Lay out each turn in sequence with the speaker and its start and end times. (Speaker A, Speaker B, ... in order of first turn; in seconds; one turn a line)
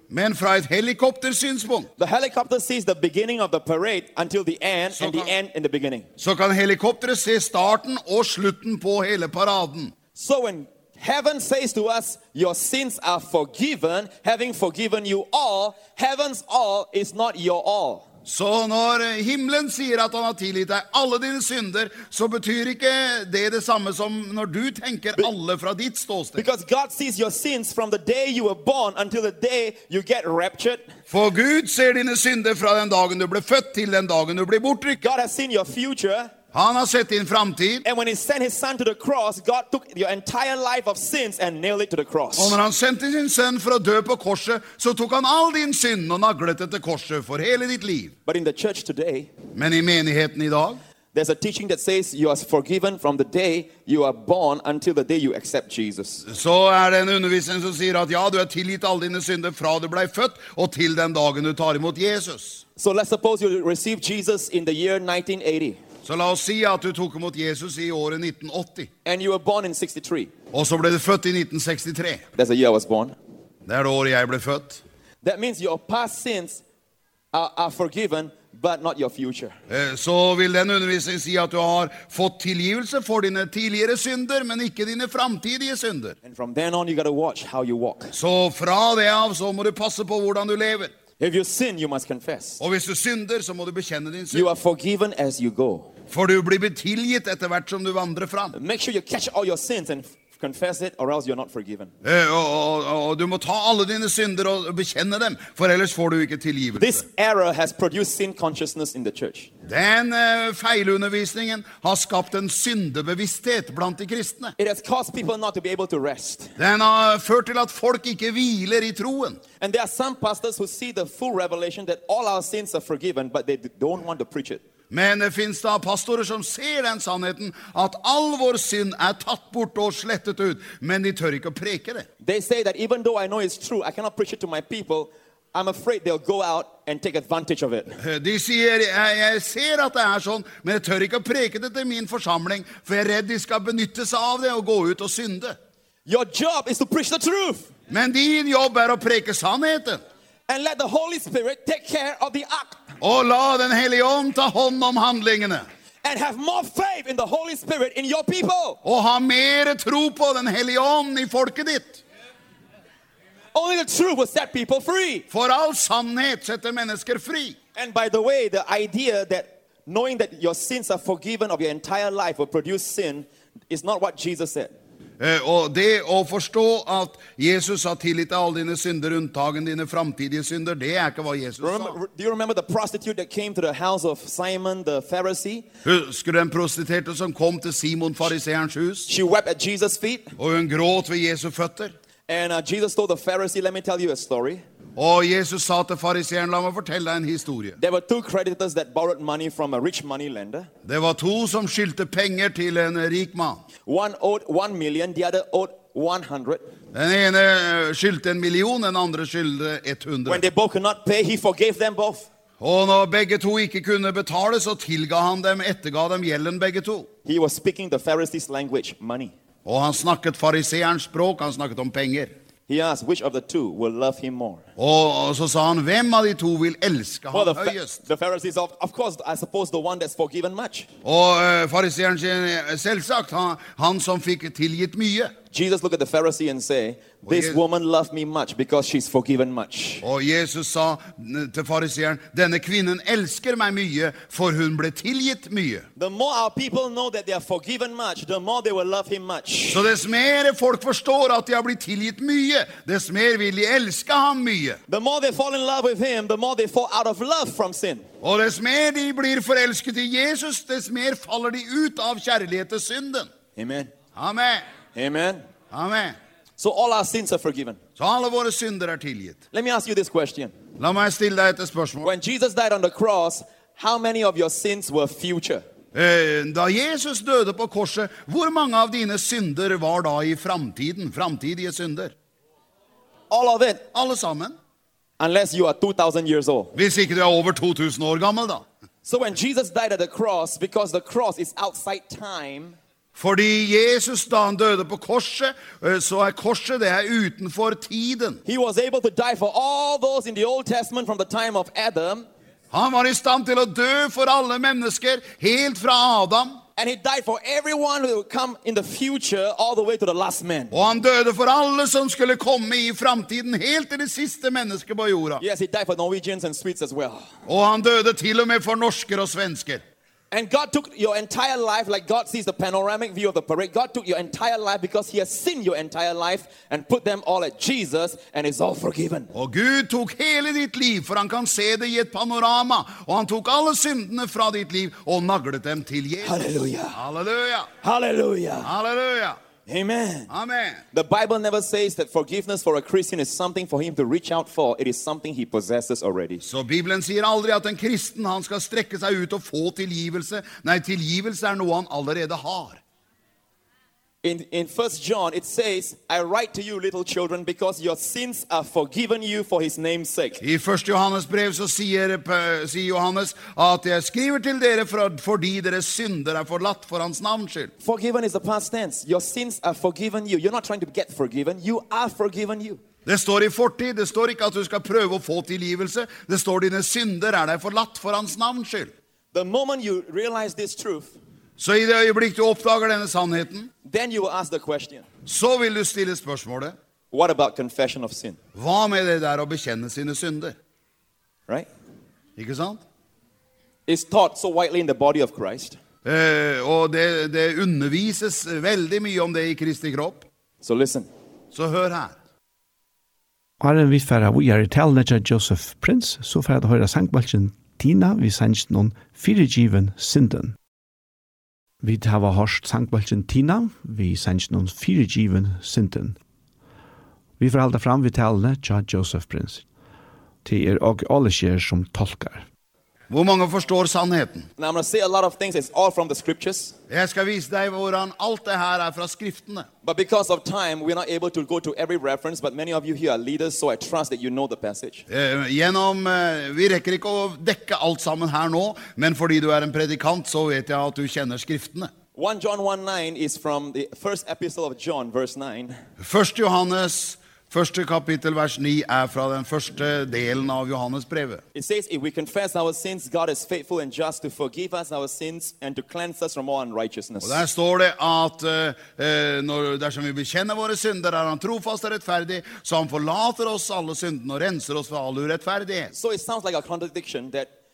Speaker A: 0.1-1.9
Speaker B: 2.0-6.1
Speaker A: 4.9-5.3
Speaker A: 6.2-9.9
Speaker B: 10.1-18.1
Speaker A: 18.2-26.4
Speaker B: 26.4-30.8
Speaker A: 31.1-35.1
Speaker B: 35.0-36.3
Speaker A: 36.5-37.8
Speaker B: 37.9-42.6
Speaker A: 42.4-48.1
Speaker B: 48.2-49.3
Speaker A: 49.5-50.8
Speaker B: 51.1-56.2
Speaker A: 56.2-62.6
Speaker B: 62.8-65.8
Speaker A: 66.0-68.9
Speaker B: 69.0-70.3
Speaker A: 70.5-72.2
Speaker B: 72.3-73.1
Speaker A: 73.7-74.8
Speaker B: 75.2-76.6
Speaker B: 77.3-79.5
Speaker A: 79.7-86.2
Speaker B: 86.2-88.1
Speaker A: 88.1-90.9
Speaker B: 91.2-92.6
Speaker A: 92.6-94.5
Speaker B: 94.3-95.9
Speaker A: 96.1-98.5
Speaker B: 98.5-101.9
Speaker A: 102.0-107.0
Speaker B: 106.8-109.5
Speaker A: 109.7-114.5
Speaker B: 114.6-116.5
Speaker A: 116.6-119.4
Speaker B: 119.6-124.6
Speaker A: 124.9-132.1
Speaker B: 132.2-138.0
Speaker A: 138.0-145.5
Speaker B: 146.1-147.7
Speaker A: 147.9-150.0
Speaker B: 150.5-152.9
Speaker A: 153.0-155.6
Speaker B: 156.0-158.8
Speaker A: 158.8-162.0
Speaker B: 163.5-165.2
Speaker A: 165.3-167.6
Speaker B: 167.8-174.7
Speaker A: 175.2-181.9
Speaker B: 181.6-185.7
Speaker A: 185.8-189.1
Speaker B: 189.1-190.3
Speaker A: 190.4-191.9
Speaker B: 192.3-194.6
Speaker A: 195.0-197.8
Speaker B: 197.8-200.7
Speaker A: 200.8-203.6
Speaker B: 203.8-206.6
Speaker A: 206.9-210.4
Speaker B: 210.2-212.3
Speaker A: 212.6-217.1
Speaker B: 217.2-219.3
Speaker A: 219.7-222.3
Speaker B: 222.7-224.6
Speaker A: 224.8-228.0
Speaker B: 227.3-230.9
Speaker A: 231.0-235.3
Speaker B: 235.5-240.0
Speaker A: 237.2-237.6
Speaker A: 240.0-245.8
Speaker B: 245.9-249.8
Speaker A: 249.7-254.8
Speaker B: 254.9-258.1
Speaker A: 258.2-263.3
Speaker B: 263.6-263.9
Speaker A: 264.1-264.6
Speaker B: 264.9-265.4
Speaker A: 265.7-266.1
Speaker B: 266.6-267.8
Speaker A: 268.0-269.4
Speaker B: 269.5-270.5
Speaker A: 270.8-272.1
Speaker B: 272.0-275.6
Speaker A: 275.9-282.1
Speaker B: 283.3-283.8
Speaker A: 283.9-284.5
Speaker B: 285.2-286.7
Speaker A: 286.7-288.6
Speaker B: 289.0-292.8
Speaker A: 293.1-298.4
Speaker B: 298.4-302.3
Speaker A: 302.7-306.6
Speaker B: 306.8-310.7
Speaker A: 310.7-315.4
Speaker B: 315.4-317.2
Speaker A: 317.5-319.8
Speaker B: 320.3-329.3
Speaker A: 329.3-336.4
Speaker B: 336.2-337.0
Speaker A: 336.9-337.7
Speaker B: 337.8-338.7
Speaker A: 338.6-339.4
Speaker B: 339.7-340.3
Speaker A: 340.3-340.8
Speaker B: 340.9-346.4
Speaker A: 346.4-352.8
Speaker B: 354.2-360.4
Speaker A: 360.4-367.7
Speaker B: 367.8-372.8
Speaker A: 373.1-378.9
Speaker B: 379.3-381.1
Speaker A: 381.6-383.7
Speaker B: 383.8-385.1
Speaker A: 385.2-386.7
Speaker B: 387.1-388.4
Speaker A: 388.5-390.6
Speaker A: 392.4-392.8
Speaker B: 393.9-395.8
Speaker A: 396.0-400.2
Speaker B: 400.6-401.1
Speaker A: 401.5-402.1
Speaker C: 403.6-410.6
Speaker C: 411.8-416.2
Speaker C: 417.4-419.6
Speaker C: 420.4-422.4
Speaker A: 423.1-424.5
Speaker B: 424.6-426.7
Speaker A: 426.9-429.7
Speaker B: 429.8-435.0
Speaker A: 435.1-441.9
Speaker B: 442.1-445.8
Speaker A: 446.0-451.4
Speaker B: 451.5-457.4
Speaker A: 457.2-465.9
Speaker B: 465.9-467.5